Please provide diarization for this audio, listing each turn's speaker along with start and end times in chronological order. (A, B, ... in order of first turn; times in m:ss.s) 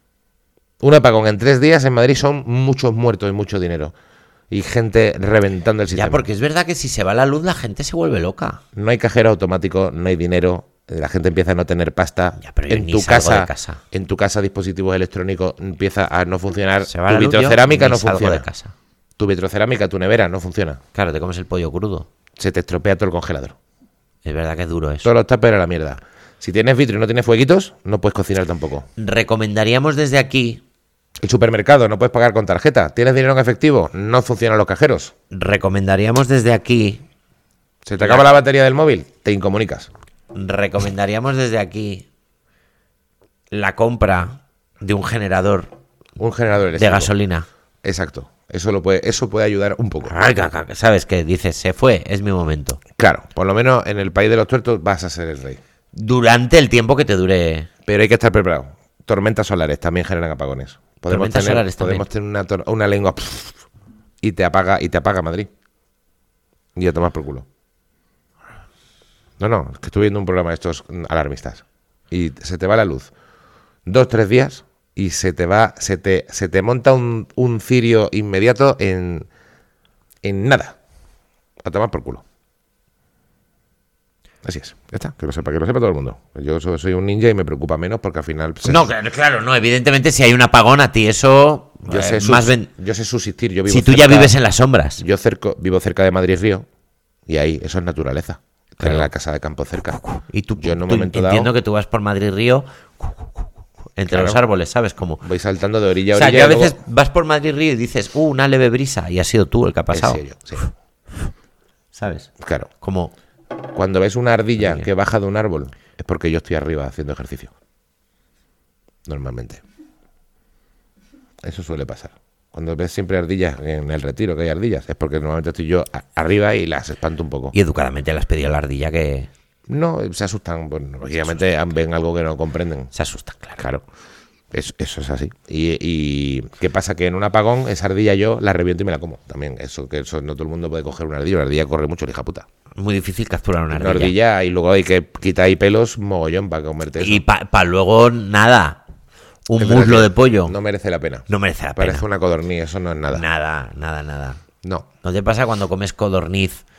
0:00.8-0:03.9 A
0:04.5-0:06.2 A
0:05.9-0:08.6 B
0:08.7-0:18.5 A
0:12.4-0:13.8 B
0:16.9-0:18.7 B
0:19.2-0:20.8 A
0:20.9-0:22.1 B
0:22.4-0:23.6 A
0:24.2-0:25.1 B
0:25.0-0:28.9 A
0:29.0-0:30.6 B
0:31.2-0:35.1 A
0:35.3-0:37.0 B
0:37.8-0:39.9 A
0:38.0-0:38.2 B
0:40.3-0:42.1 B
0:43.5-0:45.7 B
0:46.2-0:47.1 A
0:46.8-0:47.5 B
0:47.8-0:50.2 A
0:50.0-0:52.8 B
0:53.0-0:55.6 A
0:55.9-0:57.7 B
0:57.9-1:03.6 A
1:01.1-1:02.0 B
1:04.2-1:05.5 A
1:06.8-1:07.5 A
1:09.4-1:13.1 A
1:13.9-1:19.3 A
1:20.2-1:20.8 A
1:21.6-1:22.2 A
1:24.4-1:28.9 A
1:28.6-1:32.7 B
1:31.9-1:34.4 A
1:33.7-1:35.0 B
1:35.0-1:36.7 A
1:37.3-1:40.0 A
1:38.8-1:39.1 B
1:40.0-1:43.4 B
1:40.6-1:41.5 A
1:44.0-1:45.2 B
1:44.1-1:44.4 A
1:45.2-1:46.8 A
1:46.1-1:50.2 B
1:49.9-1:50.7 A
1:51.9-1:52.3 B
1:52.4-1:52.7 A
1:52.8-1:53.1 B
1:53.7-1:57.5 A
1:59.1-1:59.6 A
2:01.4-2:07.6 A
2:07.5-2:09.3 B
2:09.7-2:12.9 A
2:12.9-2:13.6 B
2:13.6-2:13.8 A
2:14.5-2:22.5 A
2:22.8-2:24.1 B
2:23.7-2:27.2 A
2:27.0-2:28.8 B
2:29.5-2:30.6 B
2:29.6-2:33.2 A
2:31.3-2:32.0 B
2:33.1-2:34.4 B
2:34.6-2:34.9 A
2:35.0-2:36.6 B